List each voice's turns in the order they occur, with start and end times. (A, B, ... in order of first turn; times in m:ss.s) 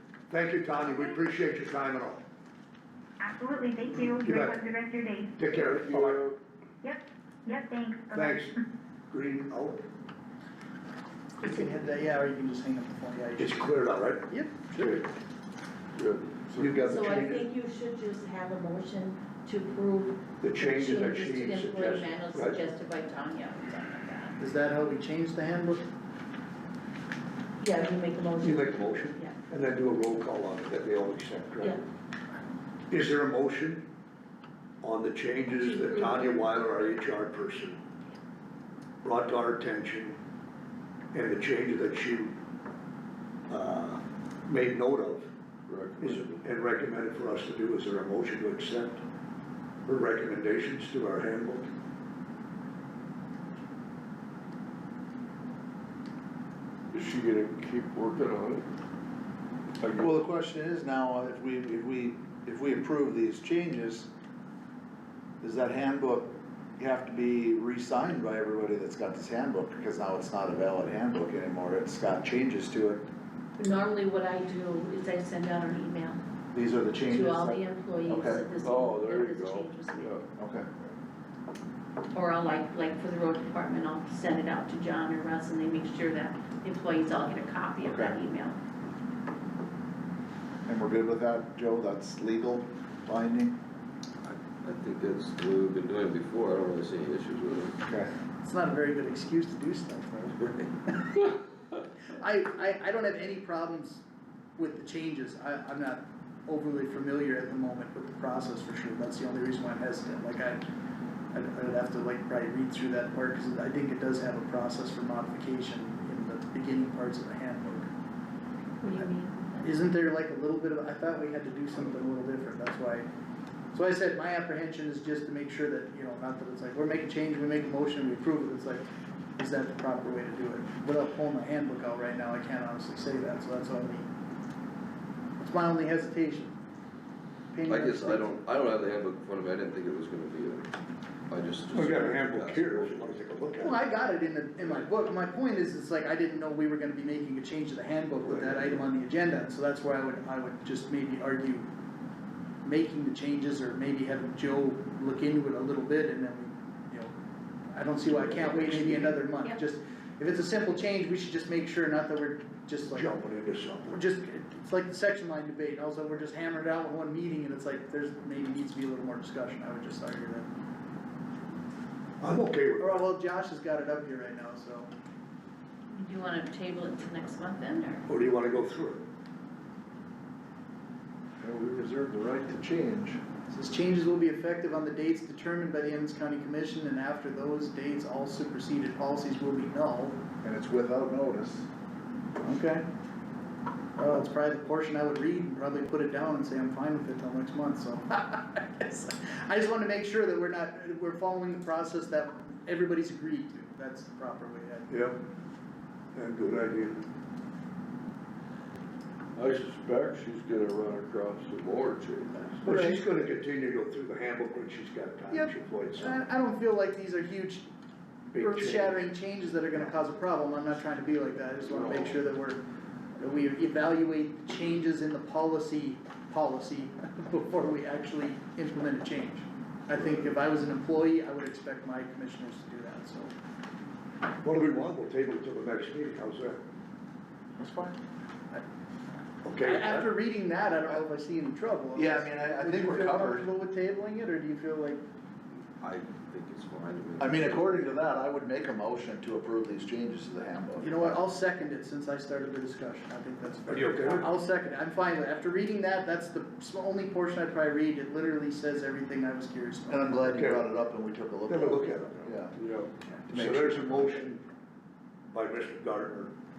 0:00.3-0:02.2 A
0:03.2-0:05.3 B
0:04.2-0:04.6 A
0:05.4-0:06.2 A
0:05.5-0:06.4 C
0:06.8-0:08.2 B
0:08.2-0:08.6 A
0:09.1-0:09.8 A
0:11.4-0:15.1 D
0:13.4-0:14.2 A
0:14.8-0:15.0 C
0:16.0-0:17.0 C
0:16.5-0:17.5 A
0:16.9-0:24.4 E
0:20.4-0:22.6 A
0:24.4-0:25.9 D
0:27.6-0:29.4 E
0:28.4-0:31.8 A
0:32.9-0:33.8 A
0:34.8-0:37.8 A
0:35.6-0:36.4 E
0:39.0-0:40.2 A
0:41.1-0:42.4 A
0:43.5-0:45.3 A
0:45.7-0:46.2 C
0:46.0-0:49.0 A
0:49.9-0:51.7 A
0:56.9-0:58.7 C
0:59.8-1:00.1 C
1:00.0-1:04.1 F
1:05.4-1:13.0 F
1:13.6-1:16.2 E
1:16.5-1:18.4 F
1:17.1-1:20.2 E
1:18.6-1:20.3 C
1:20.4-1:20.7 F
1:22.1-1:28.6 E
1:27.8-1:28.2 F
1:30.7-1:33.6 F
1:34.2-1:37.8 G
1:37.8-1:38.1 F
1:38.4-1:41.4 D
1:42.1-1:44.0 D
1:44.6-1:50.6 D
1:51.3-1:57.9 D
1:58.8-1:59.7 E
1:59.6-2:03.1 D
2:03.7-2:08.8 D
2:09.4-2:14.1 D
2:15.4-2:16.6 D
2:17.5-2:18.3 D
2:17.7-2:20.7 G
2:21.3-2:23.7 G
2:21.7-2:23.8 A
2:23.6-2:31.7 D
2:28.3-2:28.6 A
2:32.6-2:37.2 D
2:37.7-2:43.2 D
2:38.1-2:39.2 A
2:42.9-2:44.0 A
2:43.9-2:50.5 D
2:52.2-2:53.0 A
2:52.8-2:54.9 D
2:55.9-2:58.0 E
2:58.1-2:59.0 A
3:01.4-3:03.2 F
3:03.5-3:10.2 D
3:10.4-3:11.7 F
3:12.4-3:12.8 D
3:14.0-3:24.9 D
3:24.9-3:25.2 A
3:26.1-3:27.0 A
3:29.4-3:32.6 C
3:32.6-3:33.0 D
3:32.6-3:36.2 A
3:35.3-3:37.7 D
3:38.3-3:39.0 A
3:38.4-3:42.6 D
3:41.7-3:42.1 C
3:43.2-3:53.3 D
3:54.4-3:56.6 A
3:57.6-3:58.0 F
3:59.4-4:00.1 A
3:59.6-4:05.0 D
4:02.0-4:03.5 F
4:05.8-4:07.7 G
4:07.2-4:11.2 F
4:10.8-4:20.2 D
4:13.7-4:14.3 A
4:19.9-4:22.6 F
4:20.4-4:20.7 A
4:21.5-4:22.4 A
4:22.5-4:22.9 C
4:23.3-4:24.2 F
4:23.3-4:24.4 A
4:25.3-4:26.3 A